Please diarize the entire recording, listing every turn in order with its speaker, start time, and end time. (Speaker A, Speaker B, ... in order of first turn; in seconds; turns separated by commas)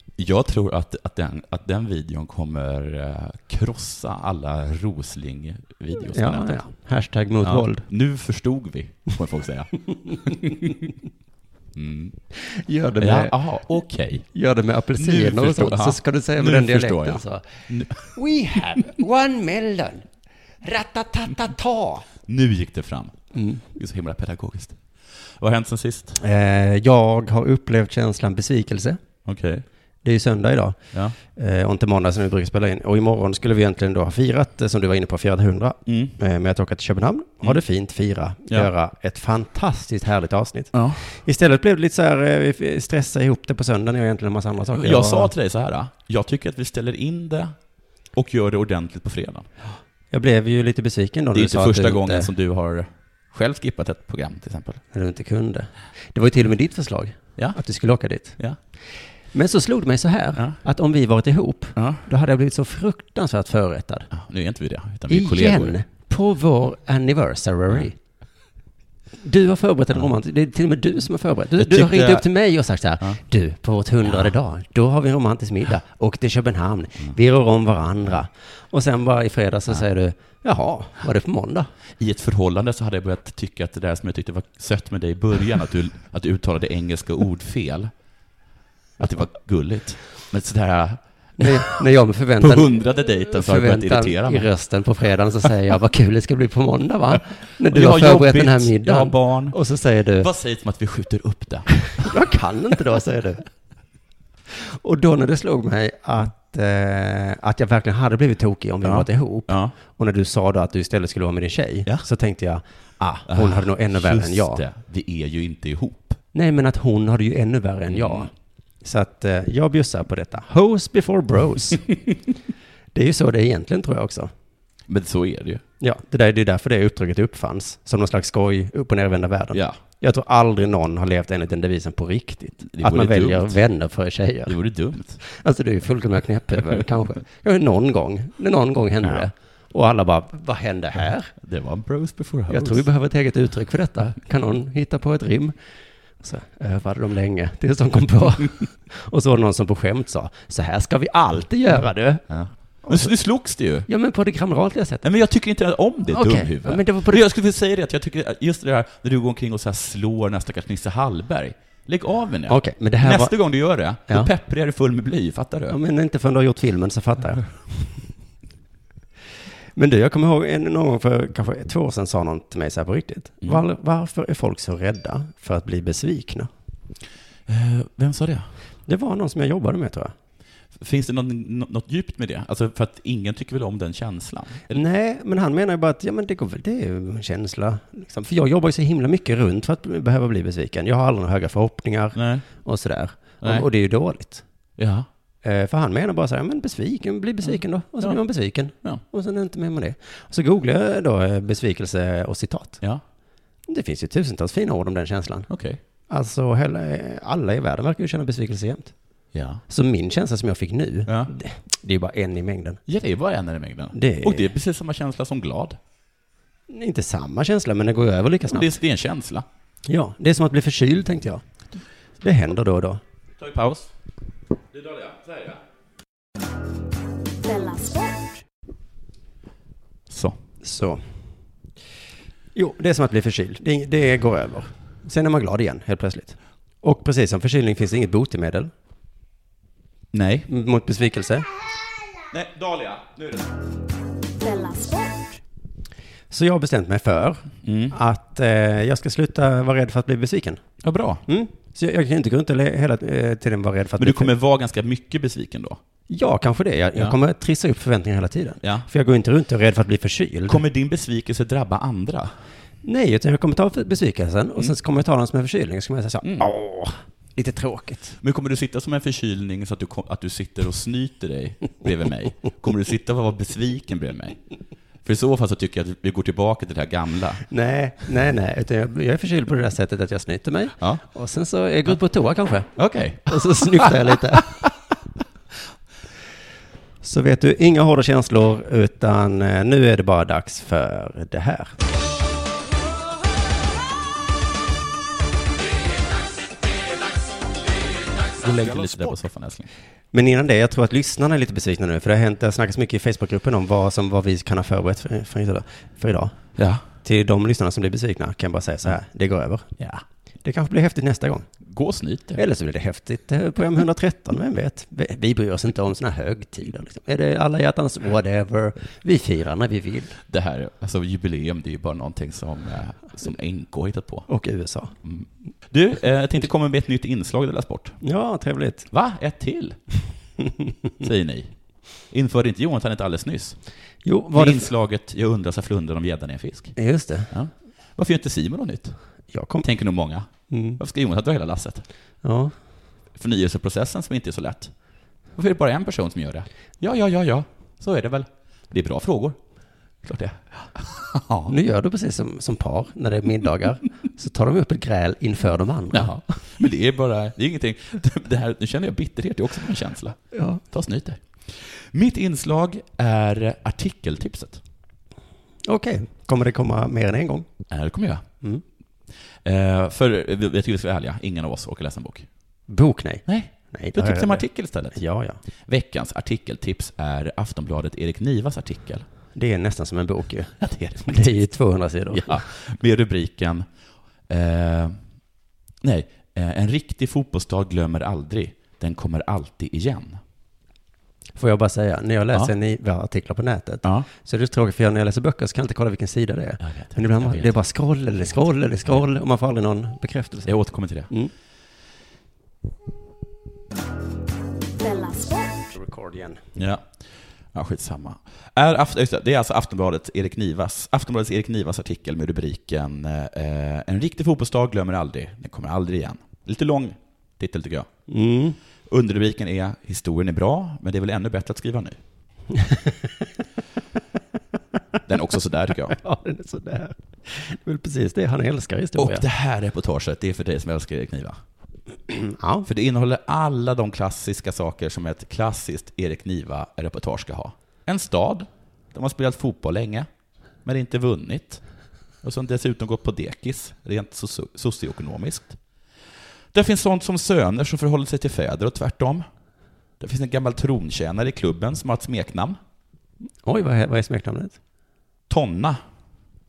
Speaker A: 0.2-6.6, Speaker B: 6.1-7.9, Speaker A: 7.4-10.8, Speaker A: 11.7-12.2, Speaker B: 12.4-13.4, Speaker A: 13.0-14.3, Speaker B: 14.3-20.1, Speaker A: 15.0-18.2, Speaker B: 20.6-22.1, Speaker A: 22.3-26.2, Speaker B: 23.3-23.6, Speaker B: 26.2-29.0, Speaker A: 29.2-29.6, Speaker B: 30.0-45.3, Speaker A: 35.9-36.1, Speaker A: 40.7-41.0, Speaker A: 44.7-47.6, Speaker A: 48.1-49.5, Speaker B: 50.1-52.3, Speaker A: 51.3-54.8, Speaker B: 54.9-58.4, Speaker B: 59.3-64.1, Speaker A: 61.8-62.0, Speaker A: 64.1-65.8, Speaker B: 65.1-68.0, Speaker B: 69.2-81.7, Speaker A: 71.6-72.3, Speaker A: 82.0-87.9, Speaker A: 89.0-91.7, Speaker B: 91.4-92.7, Speaker A: 92.4-94.5, Speaker B: 93.3-100.3, Speaker A: 97.7-99.6, Speaker A: 100.2-102.1, Speaker B: 102.0-103.4, Speaker B: 104.5-114.6, Speaker A: 108.8-109.7, Speaker A: 113.2-116.2, Speaker B: 116.3-118.3, Speaker A: 117.9-118.3, Speaker B: 118.8-121.9, Speaker B: 122.9-124.3, Speaker A: 124.9-125.6, Speaker B: 125.8-134.6, Speaker A: 129.5-129.8, Speaker A: 132.7-133.6, Speaker A: 134.5-135.2, Speaker B: 135.2-141.3, Speaker A: 141.4-142.9, Speaker B: 142.5-145.6, Speaker B: 146.2-152.3, Speaker A: 152.3-153.9, Speaker B: 152.8-153.1, Speaker B: 153.9-155.1, Speaker A: 155.0-165.8, Speaker B: 156.1-157.2, Speaker B: 162.5-163.4, Speaker B: 165.7-168.1, Speaker B: 169.8-176.5, Speaker A: 177.5-178.5, Speaker B: 178.9-180.1, Speaker A: 180.8-184.8, Speaker B: 184.7-194.4, Speaker A: 192.2-192.5, Speaker A: 194.8-195.1, Speaker B: 195.4-202.8, Speaker A: 198.0-199.0, Speaker B: 203.7-205.5, Speaker A: 205.5-205.8, Speaker B: 206.1-208.9, Speaker A: 209.3-209.6, Speaker B: 209.7-212.8, Speaker A: 211.1-211.3, Speaker A: 212.9-215.8, Speaker B: 213.9-214.5, Speaker B: 216.7-218.7, Speaker A: 218.5-219.4, Speaker B: 219.9-221.4, Speaker B: 222.2-223.0, Speaker A: 223.4-223.9, Speaker A: 224.7-225.6, Speaker C: 227.4-228.4, Speaker A: 230.1-230.4, Speaker B: 230.6-231.0, Speaker B: 232.6-238.7, Speaker A: 240.1-240.5, Speaker B: 240.5-241.4, Speaker A: 242.3-243.5, Speaker C: 244.4-245.4, Speaker B: 246.3-250.6, Speaker A: 247.6-247.9, Speaker A: 250.8-251.2, Speaker B: 251.3-254.3, Speaker A: 254.0-255.8, Speaker B: 256.1-260.6, Speaker A: 258.6-258.9, Speaker A: 260.5-262.3, Speaker B: 262.8-268.2, Speaker A: 268.2-274.4, Speaker A: 275.0-277.4, Speaker B: 277.5-282.7, Speaker A: 282.8-284.7, Speaker B: 283.3-284.6, Speaker B: 287.0-291.8, Speaker A: 298.3-299.7, Speaker B: 300.1-306.4, Speaker A: 306.6-306.8, Speaker B: 307.0-309.7, Speaker A: 309.8-310.0, Speaker B: 310.4-311.4, Speaker A: 311.6-312.4, Speaker B: 312.4-320.2, Speaker A: 320.3-324.3, Speaker B: 324.3-324.9, Speaker A: 325.0-328.0, Speaker B: 328.0-328.9, Speaker A: 328.9-329.8, Speaker A: 331.0-333.6, Speaker B: 334.0-334.7, Speaker A: 334.3-336.8, Speaker B: 336.8-337.3, Speaker A: 337.3-339.0, Speaker B: 339.3-339.7, Speaker A: 339.6-341.8, Speaker B: 340.5-340.8, Speaker B: 342.2-342.5, Speaker A: 343.2-344.7, Speaker A: 345.3-349.4, Speaker A: 350.0-351.5, Speaker B: 351.5-356.2, Speaker A: 355.9-364.6, Speaker B: 360.3-360.6, Speaker B: 365.6-367.5, Speaker A: 367.7-368.2, Speaker A: 369.4-372.3, Speaker B: 372.7-375.4, Speaker A: 373.3-375.0, Speaker A: 375.7-379.1, Speaker B: 379.3-382.4, Speaker A: 380.6-381.4, Speaker A: 382.1-383.7, Speaker A: 384.3-385.0, Speaker A: 385.8-390.2, Speaker B: 391.4-400.5, Speaker A: 396.6-397.5, Speaker A: 400.4-401.1, Speaker C: 404.8-405.7, Speaker B: 405.7-406.4, Speaker A: 406.6-406.9, Speaker A: 407.5-417.9, Speaker B: 418.1-418.6, Speaker A: 418.9-422.0, Speaker B: 422.6-422.9, Speaker A: 425.1-426.0, Speaker B: 425.9-429.2, Speaker A: 429.0-431.4, Speaker B: 432.1-432.7, Speaker A: 432.7-440.1, Speaker A: 440.6-441.6, Speaker A: 442.2-445.6, Speaker A: 446.5-449.3, Speaker A: 450.0-452.6, Speaker B: 453.4-454.6, Speaker A: 455.3-455.8